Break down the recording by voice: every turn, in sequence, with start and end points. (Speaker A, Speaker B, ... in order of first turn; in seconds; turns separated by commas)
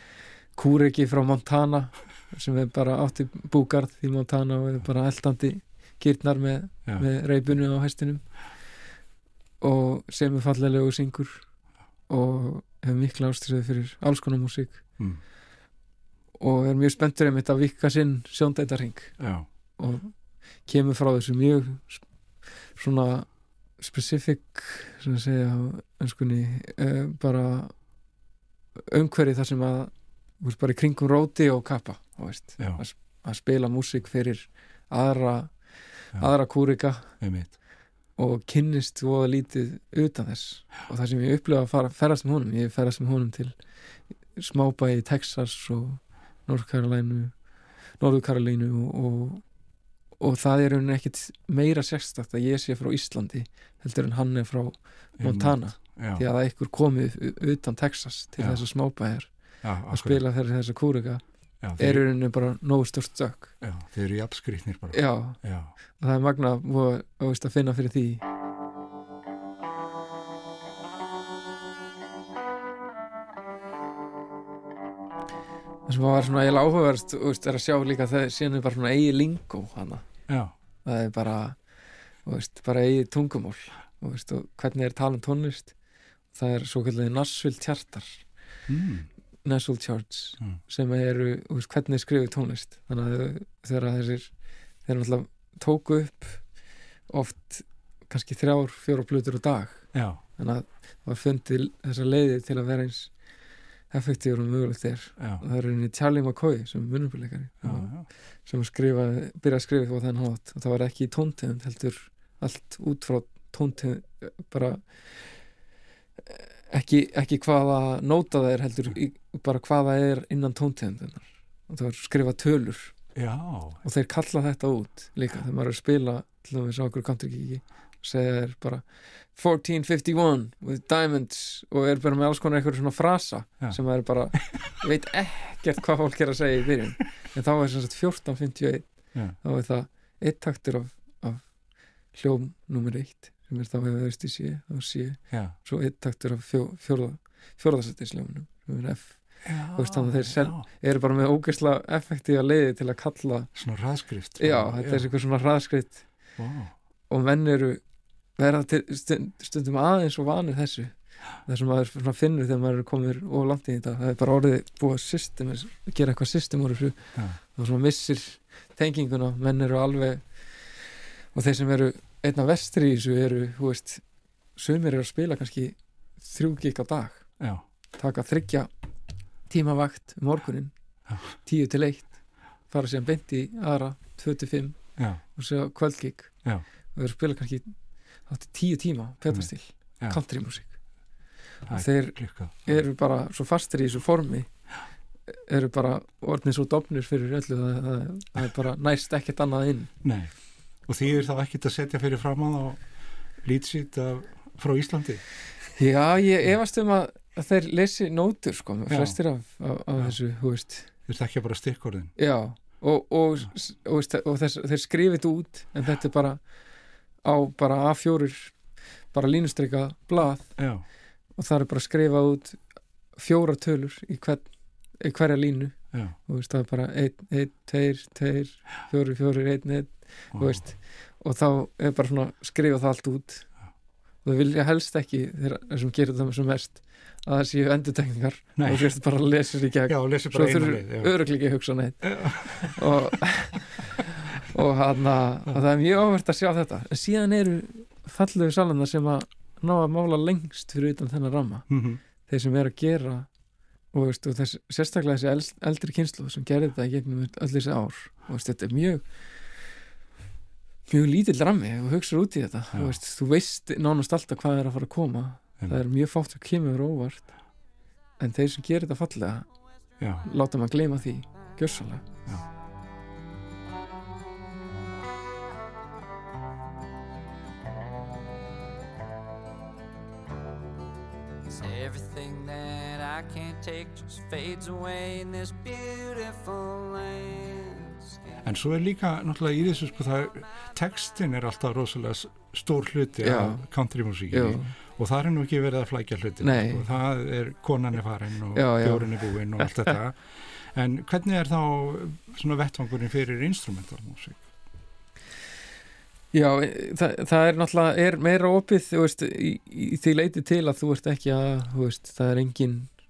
Speaker A: 0.5-8.3, Speaker A: 9.6-11.5, Speaker A: 12.1-14.8, Speaker A: 16.4-19.2, Speaker B: 19.2-19.5, Speaker A: 19.8-22.1, Speaker A: 22.7-27.8, Speaker A: 28.8-37.2, Speaker B: 37.2-37.5, Speaker A: 38.2-43.6, Speaker A: 44.3-47.4, Speaker A: 48.0-49.5, Speaker A: 50.2-63.5, Speaker B: 55.2-56.2, Speaker B: 58.4-58.6, Speaker B: 59.6-60.2, Speaker B: 61.6-62.1, Speaker B: 63.6-65.7, Speaker A: 64.9-68.2, Speaker A: 75.9-80.1, Speaker B: 80.3-80.5, Speaker A: 80.8-81.6, Speaker A: 82.2-85.8, Speaker A: 86.3-88.2, Speaker B: 88.7-89.1, Speaker A: 89.5-96.5, Speaker A: 97.1-103.2, Speaker B: 99.9-100.2, Speaker A: 103.9-115.4, Speaker B: 105.2-105.4, Speaker B: 107.6-108.1, Speaker A: 116.3-123.0, Speaker B: 123.2-123.8, Speaker A: 123.8-141.6, Speaker A: 142.1-153.6, Speaker B: 145.3-145.6, Speaker B: 149.4-150.7, Speaker B: 153.6-155.1, Speaker A: 154.4-156.1, Speaker B: 156.4-156.7, Speaker A: 157.1-157.8, Speaker A: 158.4-174.0, Speaker B: 167.2-167.4, Speaker A: 174.6-177.4, Speaker A: 177.9-178.7, Speaker A: 179.5-190.8, Speaker B: 181.1-181.3, Speaker B: 185.0-185.2, Speaker B: 189.3-190.2, Speaker B: 191.7-192.9, Speaker A: 191.7-194.5, Speaker A: 195.3-199.9, Speaker B: 200.0-205.2, Speaker A: 205.8-210.9, Speaker B: 208.9-209.2, Speaker B: 211.1-212.1, Speaker A: 212.2-216.4, Speaker A: 217.2-218.6, Speaker A: 219.1-220.7, Speaker B: 220.6-220.8, Speaker A: 221.3-222.6, Speaker A: 223.1-233.6, Speaker B: 230.3-230.7, Speaker A: 234.2-251.7, Speaker B: 238.6-238.9, Speaker B: 239.9-241.2, Speaker B: 242.0-242.9, Speaker B: 251.7-252.0, Speaker A: 252.2-253.3, Speaker A: 253.9-259.1, Speaker A: 260.9-267.4, Speaker B: 262.7-263.0, Speaker A: 268.2-269.6, Speaker B: 270.0-270.3, Speaker A: 270.2-272.1, Speaker C: 281.5-288.4, Speaker B: 288.4-304.5, Speaker A: 293.2-293.7, Speaker A: 294.3-294.7, Speaker A: 296.4-296.9, Speaker A: 298.6-300.0, Speaker A: 306.3-312.9